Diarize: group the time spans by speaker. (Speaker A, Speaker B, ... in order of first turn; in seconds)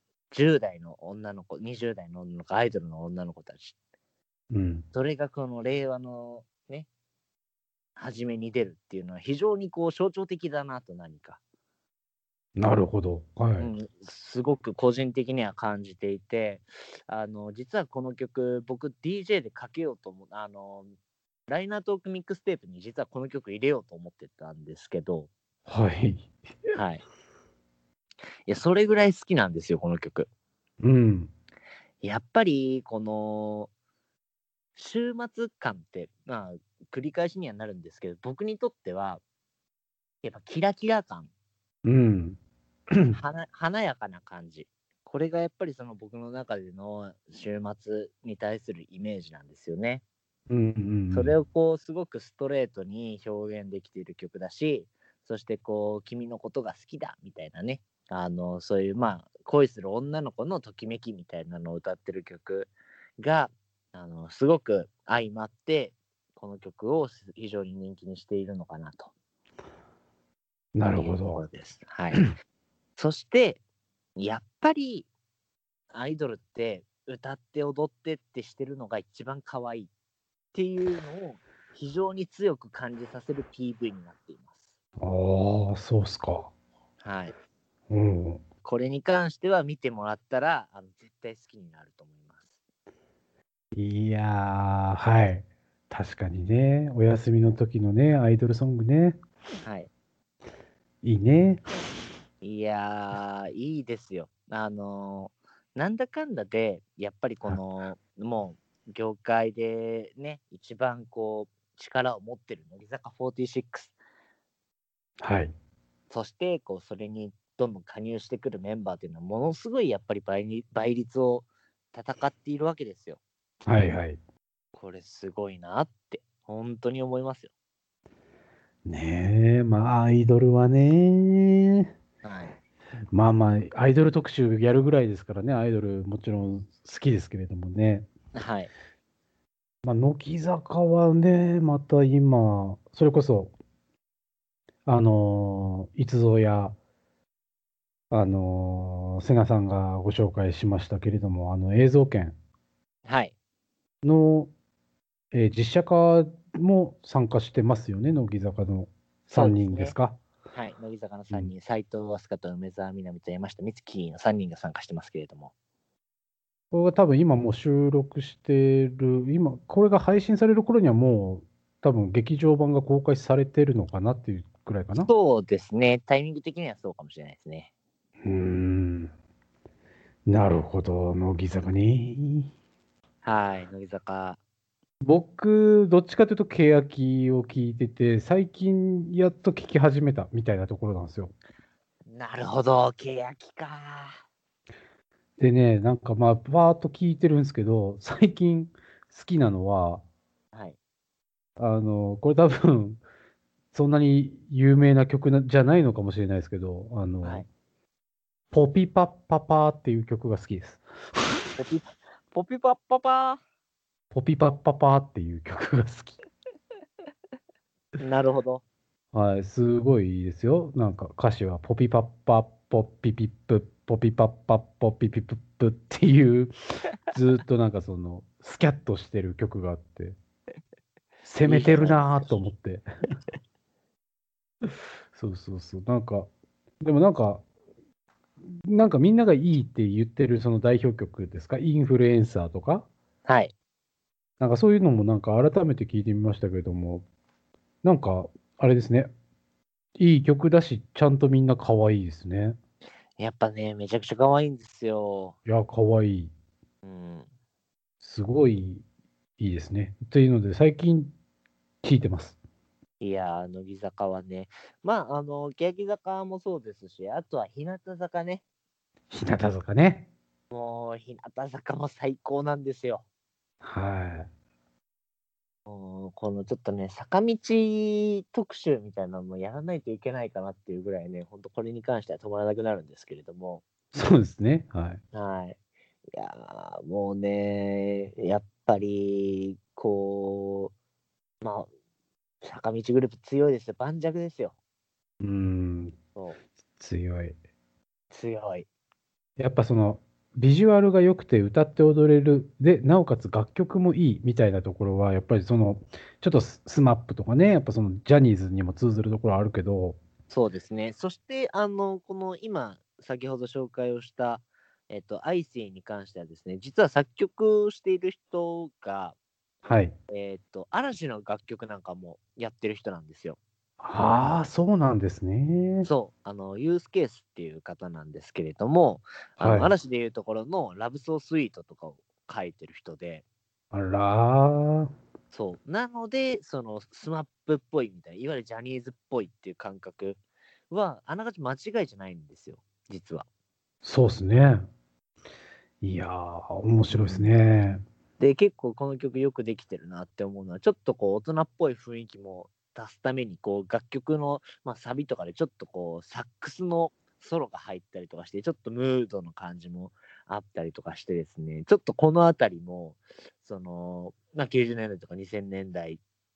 Speaker A: 0.3-3.8, 4.9-6.9, 8.0-11.4, 13.6-20.9, 21.5-25.3, 26.7-27.0, 28.4-30.3, 32.0-33.7, 34.8-39.2, 40.2-41.3, 43.1-50.0, 51.1-69.1, 70.9-72.3, 73.0-73.6, 74.2-75.1, 75.9-79.9, 80.5-84.7, 87.0-87.3, 88.6-92.5, 99.6-99.9, 102.4-114.0, 116.1-123.2, 124.7-127.5, 132.2-132.6, 138.3-138.7, 153.0-153.3, 159.3-159.9, 160.5-165.5, 174.9-177.7, 183.2-184.4, 192.1-194.2, 211.6-213.4, 218.0-218.6, 231.4-232.3, 243.2-243.5, 253.2-255.4, 256.8-257.3, 263.0-268.4, 270.5-273.0, 275.7-283.6, 285.1-285.6, 286.1-290.7, 291.4-291.7, 292.4-294.6, 296.1-296.4, 298.1-298.7, 310.3-319.1, 320.1-323.4, 325.8-333.2, 335.3-340.2, 340.7-343.3, 346.9-347.3, 348.2-366.0
Speaker B: 4.5-4.8, 12.6-13.7, 25.6-26.3, 30.8-31.3, 41.8-42.4, 42.9-43.2, 50.5-51.4, 70.7-71.4, 85.0-86.5, 87.9-88.4, 93.7-99.2, 101.0-101.7, 115.2-115.5, 123.7-124.2, 128.8-131.9, 133.1-138.1, 139.8-143.5, 144.8-146.8, 148.1-152.4, 154.0-154.5, 155.3-160.2, 166.7-175.1, 178.2-179.1, 180.3-182.5, 185.0-191.3, 195.4-200.0, 201.6-203.0, 203.7-207.4, 208.5-210.8, 214.1-216.2, 219.1-230.2, 231.2-232.8, 234.7-236.3, 236.8-237.4, 238.6-242.9, 244.4-247.0, 247.8-249.1, 250.0-252.6, 255.4-256.3, 258.0-258.8, 259.4-261.1, 261.8-262.4, 269.1-270.1, 273.6-274.3, 283.9-285.0, 295.2-295.9, 296.8-297.4, 299.4-310.0, 319.6-319.9, 323.8-325.9, 329.4-329.7, 333.7-334.9, 343.8-344.6, 345.8-347.8